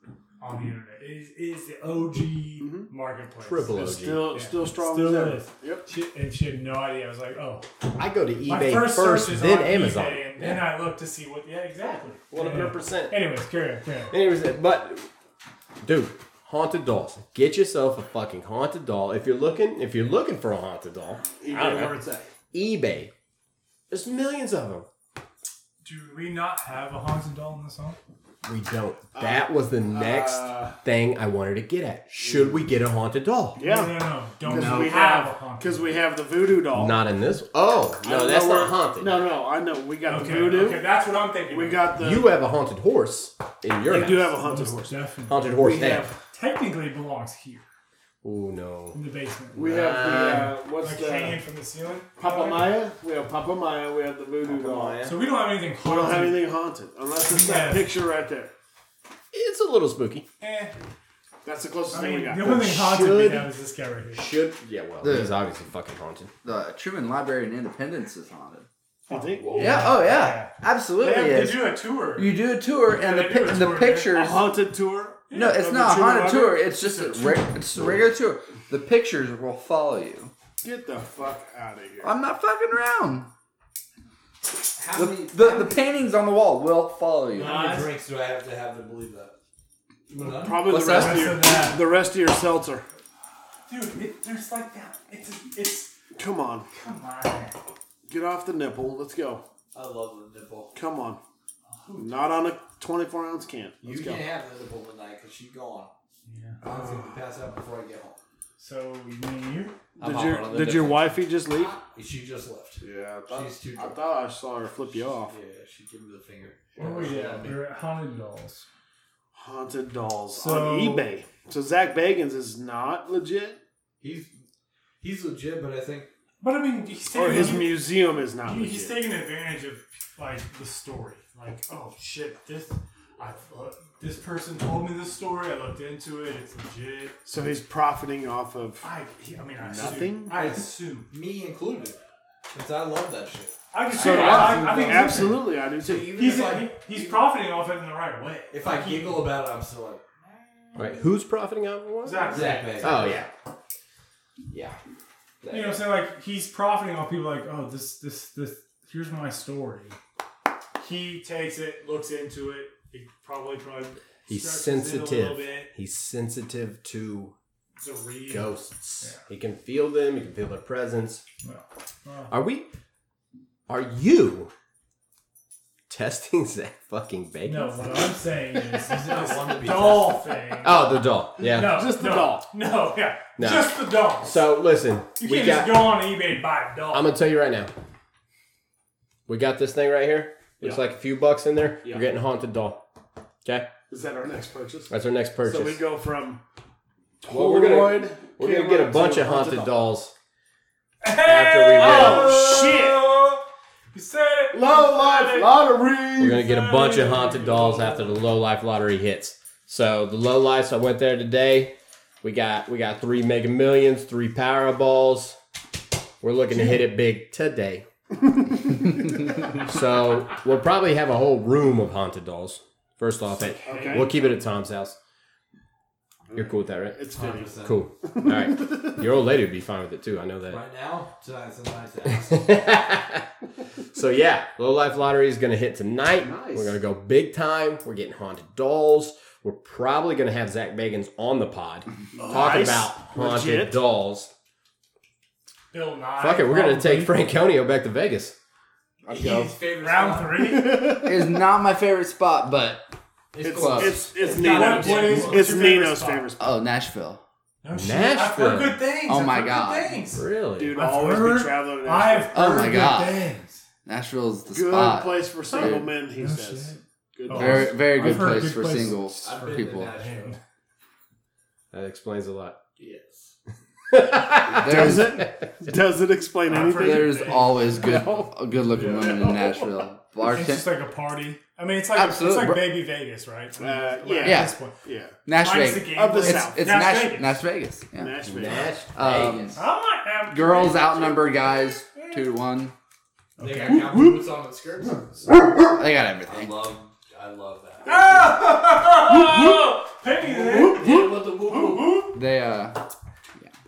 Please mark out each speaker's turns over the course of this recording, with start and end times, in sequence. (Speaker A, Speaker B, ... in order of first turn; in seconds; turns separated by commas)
Speaker A: 0.4-7.7, Speaker B: 2.6-2.9, Speaker C: 3.4-4.3, Speaker B: 3.8-5.8, Speaker C: 8.0-10.7, Speaker A: 8.5-14.2, Speaker C: 12.3-13.2, Speaker C: 14.1-15.1, Speaker C: 15.8-22.0, Speaker B: 21.4-22.3, Speaker C: 22.5-23.1, Speaker C: 23.9-24.9, Speaker A: 25.8-28.0, Speaker C: 28.4-33.6, Speaker B: 29.1-30.8, Speaker B: 32.2-32.6, Speaker B: 33.6-37.0, Speaker A: 33.6-36.0, Speaker D: 34.5-35.0, Speaker C: 36.7-39.1, Speaker B: 38.0-40.8, Speaker A: 40.0-41.9, Speaker B: 41.5-42.3, Speaker C: 42.0-44.4, Speaker B: 43.9-45.0, Speaker A: 44.0-45.5, Speaker C: 45.3-46.1, Speaker B: 45.6-46.2, Speaker A: 46.3-47.6, Speaker C: 48.2-49.0, Speaker A: 48.9-52.7, Speaker B: 49.5-51.4, Speaker C: 49.6-50.5, Speaker B: 52.2-55.0, Speaker C: 54.4-55.2, Speaker A: 55.0-56.5, Speaker B: 55.8-58.5, Speaker A: 57.2-58.0, Speaker C: 59.3-60.3, Speaker A: 60.4-60.7, Speaker B: 61.5-62.8, Speaker A: 61.9-64.3, Speaker C: 62.6-63.5, Speaker C: 64.1-66.3, Speaker D: 65.0-65.4, Speaker D: 66.4-68.7, Speaker B: 69.1-69.9, Speaker A: 69.1-72.3, Speaker C: 69.4-69.9, Speaker D: 69.5-74.4, Speaker A: 72.9-74.2, Speaker B: 74.1-76.6, Speaker A: 75.3-76.1, Speaker D: 75.3-80.3, Speaker A: 76.6-77.5, Speaker B: 80.6-82.2, Speaker D: 82.0-83.3, Speaker E: 84.8-85.8, Speaker D: 84.9-87.6, Speaker E: 87.3-89.3, Speaker A: 87.4-87.9, Speaker E: 90.1-91.0, Speaker B: 90.2-92.8, Speaker D: 90.7-91.5, Speaker A: 90.8-91.8, Speaker A: 93.7-95.9, Speaker B: 96.2-96.7, Speaker A: 96.7-97.5, Speaker B: 98.1-99.4, Speaker E: 99.7-100.8, Speaker B: 100.7-101.2, Speaker A: 101.7-102.1, Speaker B: 102.0-104.2, Speaker E: 103.8-105.9, Speaker A: 106.2-106.6, Speaker E: 106.6-108.2, Speaker A: 108.6-109.8, Speaker B: 110.0-111.7, Speaker C: 110.0-111.0, Speaker E: 110.1-110.9, Speaker E: 111.5-114.0, Speaker B: 112.8-115.4, Speaker E: 115.3-117.6, Speaker A: 116.8-118.7, Speaker B: 116.8-117.1, Speaker B: 119.3-123.6, Speaker A: 120.3-121.1, Speaker E: 124.0-124.4, Speaker E: 125.0-126.1, Speaker A: 126.4-127.8, Speaker B: 127.1-129.0, Speaker A: 128.4-137.2, Speaker B: 137.2-138.9, Speaker A: 138.8-141.1, Speaker B: 139.6-140.3, Speaker E: 140.3-142.0, Speaker E: 142.5-147.2, Speaker A: 143.7-145.4, Speaker B: 143.9-146.1, Speaker A: 146.1-149.2, Speaker E: 148.5-150.1, Speaker C: 150.8-153.3, Speaker A: 152.0-153.1, Speaker E: 152.2-153.1, Speaker C: 154.5-154.8, Speaker C: 155.4-155.9, Speaker A: 155.5-160.0, Speaker A: 160.8-165.7, Speaker C: 164.3-167.3, Speaker A: 167.8-169.2, Speaker C: 168.3-171.2, Speaker A: 171.4-172.3, Speaker C: 172.3-172.7, Speaker C: 173.7-174.5, Speaker C: 175.9-177.8, Speaker A: 177.4-184.5, Speaker E: 178.8-180.2, Speaker C: 180.6-181.8, Speaker B: 181.5-182.5, Speaker C: 183.4-186.0, Speaker A: 185.2-187.1, Speaker C: 186.9-187.7, Speaker C: 189.3-192.8, Speaker C: 193.4-193.7, Speaker B: 193.9-194.9, Speaker C: 194.9-195.8, Speaker B: 195.4-196.4, Speaker B: 197.2-199.8, Speaker C: 197.3-200.1, Speaker A: 201.0-203.4, Speaker C: 201.2-202.5, Speaker B: 201.8-203.1, Speaker A: 203.9-205.7, Speaker B: 204.5-206.4, Speaker C: 206.2-215.4, Speaker A: 206.2-208.2, Speaker C: 216.2-217.9, Speaker B: 218.5-218.9, Speaker C: 219.6-225.0, Speaker A: 223.4-224.3, Speaker B: 223.7-224.2, Speaker B: 226.3-229.0, Speaker C: 226.3-230.6, Speaker E: 227.1-227.8, Speaker E: 230.5-232.5, Speaker C: 232.1-233.3, Speaker C: 233.9-244.3, Speaker B: 236.2-236.8, Speaker B: 242.2-243.8, Speaker A: 245.7-247.2, Speaker C: 246.2-248.3, Speaker D: 249.0-249.5, Speaker E: 249.1-250.6, Speaker A: 249.7-251.0, Speaker B: 250.4-251.4, Speaker D: 250.9-252.8, Speaker E: 253.3-255.6, Speaker B: 253.4-256.6, Speaker D: 253.5-254.1, Speaker A: 254.3-256.3, Speaker D: 256.4-257.2, Speaker A: 257.6-263.6, Speaker C: 257.7-258.8, Speaker D: 259.1-260.1, Speaker C: 260.1-260.7, Speaker B: 260.6-262.4, Speaker D: 262.3-263.3, Speaker D: 263.9-265.9, Speaker B: 264.5-268.4, Speaker A: 265.5-270.4, Speaker D: 267.3-269.9, Speaker E: 269.2-270.4, Speaker C: 271.7-272.6, Speaker E: 272.8-273.3, Speaker C: 273.9-275.4, Speaker B: 274.5-279.9, Speaker D: 274.6-275.2, Speaker A: 276.4-277.9, Speaker D: 276.6-280.7, Speaker A: 280.2-284.8, Speaker D: 281.9-282.7, Speaker B: 283.6-285.2, Speaker D: 284.2-284.7, Speaker D: 285.3-288.3, Speaker A: 285.3-287.4, Speaker B: 285.9-286.7, Speaker B: 288.0-288.7, Speaker C: 288.3-289.5, Speaker D: 288.9-289.7, Speaker A: 289.6-292.2, Speaker D: 290.3-292.7, Speaker A: 293.4-293.9, Speaker E: 293.4-295.3, Speaker D: 295.7-296.6, Speaker E: 296.3-298.2, Speaker A: 297.9-300.9, Speaker E: 300.3-302.1, Speaker A: 301.5-302.2, Speaker D: 302.1-302.8